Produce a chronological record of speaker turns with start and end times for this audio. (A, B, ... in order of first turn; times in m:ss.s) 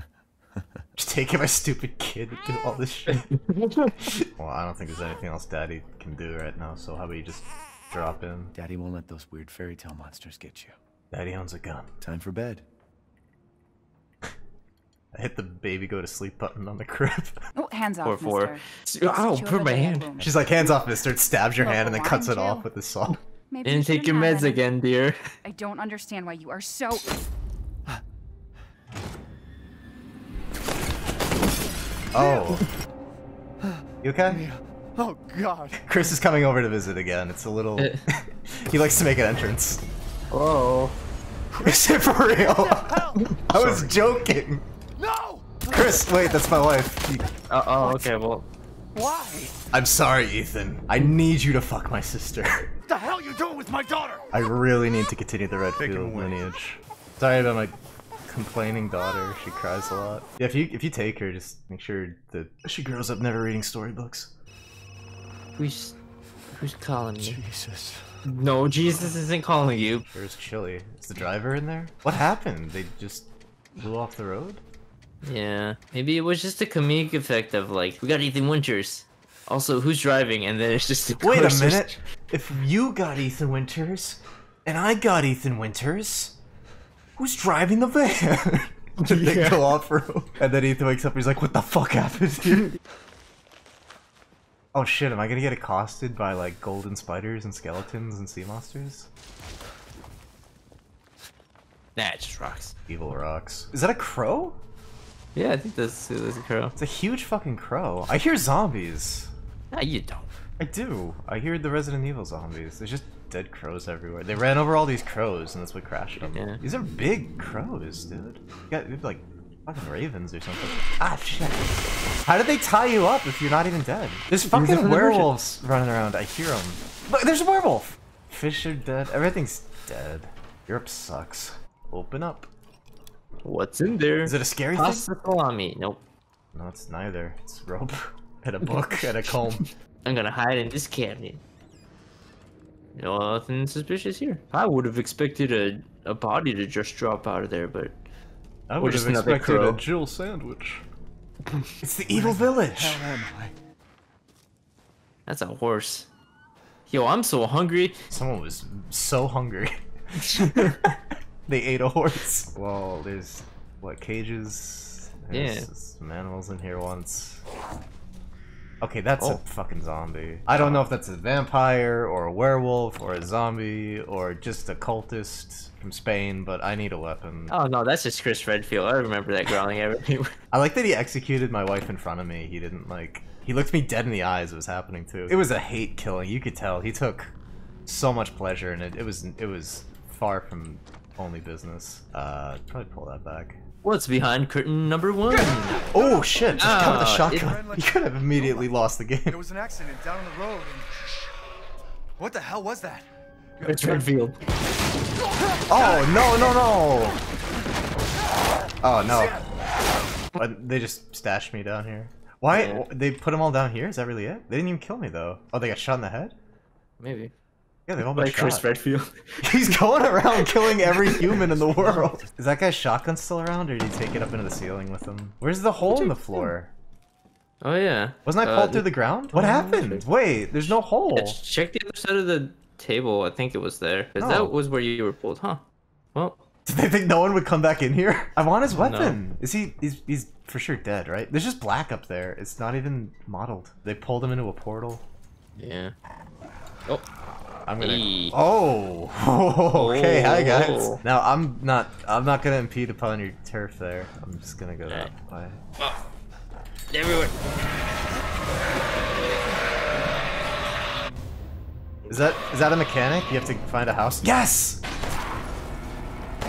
0:01.0-0:03.4 A
0:03.2-0:03.9 B
0:04.0-0:08.5 A
0:08.5-0:10.7 C
0:11.1-0:11.9 A
0:12.0-0:12.6 C
0:15.1-0:17.4 A
0:17.5-0:20.8 D
0:18.0-0:20.1 B
0:20.2-0:23.2 A
0:21.6-0:22.7 D
0:23.5-0:24.6 D
0:23.6-0:25.2 B
0:25.4-0:27.2 D
0:32.1-0:32.6 A
0:32.2-0:32.4 C
0:33.6-0:35.9 C
0:34.0-0:34.4 A
0:35.7-0:39.8 A
0:40.3-0:41.0 B
0:41.5-0:43.9 C
0:41.5-0:44.6 A
0:45.0-0:46.0 C
0:45.7-0:47.3 A
0:47.5-0:48.4 B
0:48.9-0:49.5 C
0:49.7-0:52.7 A
0:52.9-0:54.3 C
0:54.3-0:57.7 A
0:55.8-0:56.4 C
0:58.3-1:04.3 A
1:05.6-1:06.0 B
1:06.5-1:07.4 B
1:07.2-1:08.2 C
1:08.2-1:10.0 B
1:10.1-1:14.6 A
1:15.2-1:22.0 B
1:21.2-1:26.4 A
1:27.2-1:32.7 A
1:29.0-1:29.6 B
1:34.7-1:39.1 A
1:42.0-1:42.8 B
1:42.9-1:44.6 A
1:45.3-1:46.7 B
1:46.8-1:49.3 A
1:49.7-1:50.3 B
1:50.6-2:01.7 A
1:56.2-1:56.6 B
2:02.2-2:12.5 A
2:04.4-2:05.3 B
2:13.4-2:16.0 B
2:14.2-2:15.0 A
2:16.5-2:19.6 A
2:18.8-2:21.4 B
2:23.0-2:27.9 B
2:28.7-2:30.8 A
2:28.8-2:29.8 B
2:31.6-2:33.5 C
2:31.8-2:33.1 A
2:35.3-2:36.1 B
2:36.9-2:38.0 B
2:38.1-2:39.7 A
2:40.2-2:40.8 B
2:40.3-2:41.0 A
2:41.5-2:47.4 A
2:45.3-2:45.7 B
2:48.8-2:57.6 A
2:50.5-2:50.8 B
2:57.5-3:00.3 B
3:00.5-3:07.3 A
3:07.8-3:13.6 A
3:13.8-3:15.9 B
3:15.9-3:19.4 A
3:15.9-3:18.7 C
3:16.6-3:17.6 B
3:19.2-3:21.5 C
3:22.2-3:24.0 C
3:23.6-3:24.4 B
3:25.7-3:27.2 A
3:28.8-3:29.4 A
3:30.3-3:36.3 A
3:32.5-3:32.8 B
3:37.0-3:37.3 B
3:37.9-3:38.7 A
3:38.1-3:41.2 B
3:39.4-3:46.7 A
3:41.2-3:42.2 C
3:45.9-3:46.5 B
3:47.6-3:50.0 B
3:48.2-3:51.4 A
3:51.1-3:55.6 B
3:54.2-3:54.5 A
3:56.1-3:56.4 B
3:56.6-4:05.0 A
3:58.7-3:59.2 B
4:05.6-4:05.9 B
4:07.6-4:15.6 A
4:07.8-4:08.4 B
4:09.7-4:11.0 B
4:16.9-4:17.4 B
4:22.1-4:24.8 A